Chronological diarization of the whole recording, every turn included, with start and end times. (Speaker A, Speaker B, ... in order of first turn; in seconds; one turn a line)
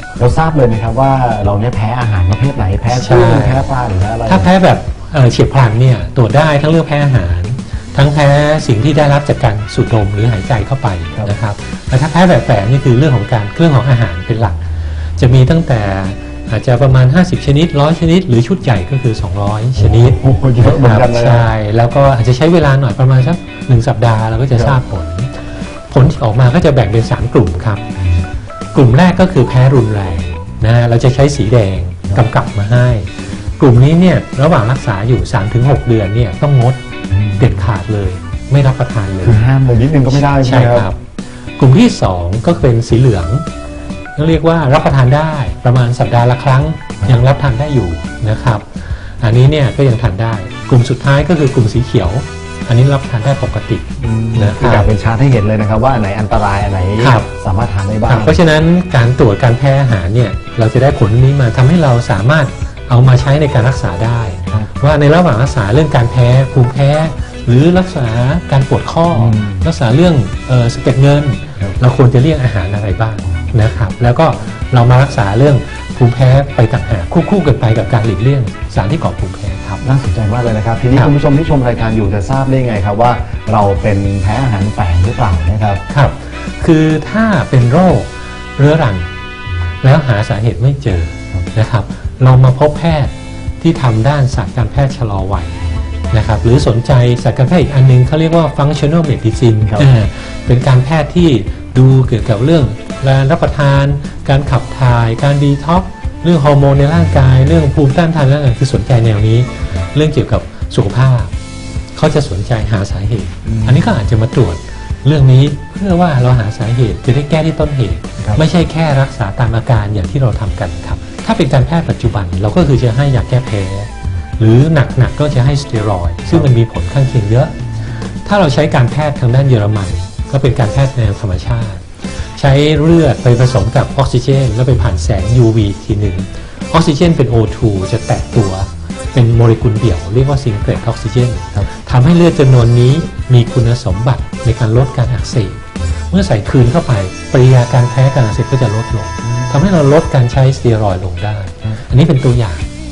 Speaker A: 0.2-4.5
Speaker B: 2.9-3.7
Speaker B: 4.3-27.9
Speaker A: 19.8-21.5
Speaker B: 28.7-36.8
Speaker A: 37.1-37.5
Speaker B: 37.4-39.5
Speaker A: 39.2-40.9
Speaker B: 40.1-41.0
Speaker B: 41.6-43.5
Speaker B: 44.1-54.9
Speaker A: 54.0-58.4
Speaker B: 57.0-57.3
Speaker B: 58.1-79.8
Speaker A: 69.1-69.7
Speaker A: 79.8-85.8
Speaker B: 85.9-89.1
Speaker B: 89.8-111.3
Speaker A: 99.6-99.9
Speaker B: 111.9-127.5
Speaker A: 113.5-113.9
Speaker B: 128.2-152.7